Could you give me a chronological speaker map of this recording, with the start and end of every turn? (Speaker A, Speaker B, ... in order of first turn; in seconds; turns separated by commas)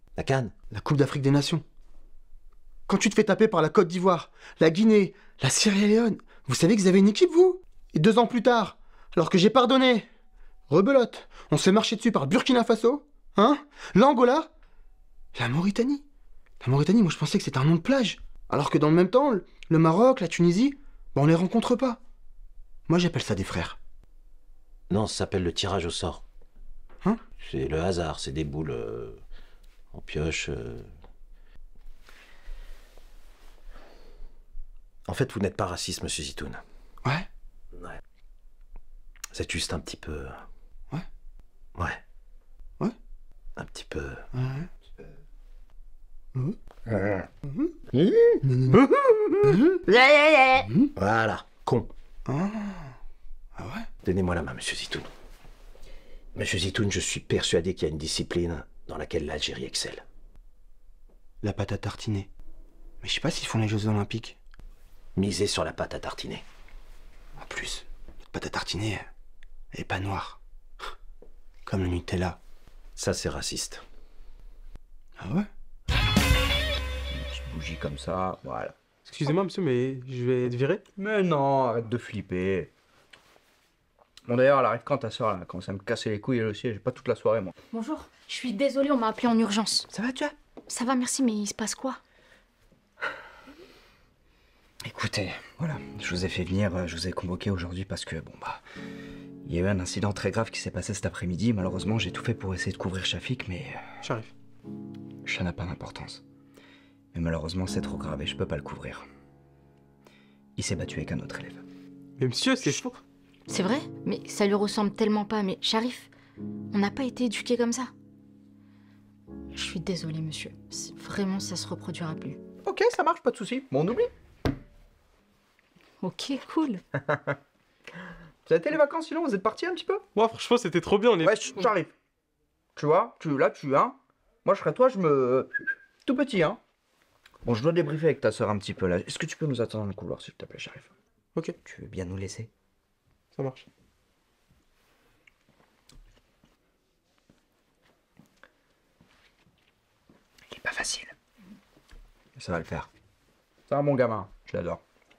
Speaker A: 0.1-0.5, Speaker B: 0.7-1.6, Speaker B: 2.9-10.1, Speaker B: 10.7-14.5, Speaker B: 15.3-16.0, Speaker B: 16.6-22.0, Speaker B: 22.9-23.8, Speaker A: 24.9-26.2, Speaker A: 27.4-29.2, Speaker A: 29.9-30.9, Speaker A: 35.0-36.6, Speaker A: 39.3-40.4, Speaker A: 43.5-44.2, Speaker B: 44.3-44.7, Speaker A: 46.9-47.2, Speaker B: 47.5-47.7, Speaker A: 47.9-48.4, Speaker B: 48.4-48.8, Speaker B: 49.4-49.8, Speaker A: 50.0-51.9, Speaker B: 50.6-50.9, Speaker B: 52.2-52.9, Speaker B: 53.5-53.9, Speaker A: 54.0-55.1, Speaker A: 56.4-60.0, Speaker B: 61.4-62.3, Speaker B: 63.0-64.4, Speaker A: 65.2-66.4, Speaker B: 67.4-69.1, Speaker B: 69.7-70.4, Speaker B: 71.7-72.4, Speaker A: 73.0-73.8, Speaker B: 75.2-75.5, Speaker C: 77.1-78.8, Speaker D: 79.0-80.8, Speaker C: 81.0-82.7, Speaker C: 84.3-87.5, Speaker E: 87.7-89.8, Speaker C: 89.9-90.3, Speaker E: 90.7-92.0, Speaker C: 94.8-98.6, Speaker C: 99.4-103.8, Speaker D: 104.0-104.3, Speaker C: 105.2-106.2, Speaker C: 107.1-109.0, Speaker C: 110.6-111.6, Speaker D: 112.2-113.0, Speaker E: 113.5-116.1, Speaker E: 116.7-117.9, Speaker E: 119.5-122.4, Speaker C: 122.6-124.1, Speaker E: 126.0-126.8, Speaker C: 127.0-127.3, Speaker C: 128.4-130.0, Speaker D: 130.1-131.7, Speaker C: 131.2-131.9, Speaker C: 132.8-136.6, Speaker C: 137.4-140.9, Speaker C: 141.6-142.5, Speaker D: 143.3-143.6, Speaker C: 150.5-151.1, Speaker C: 152.3-152.9, Speaker C: 153.7-154.8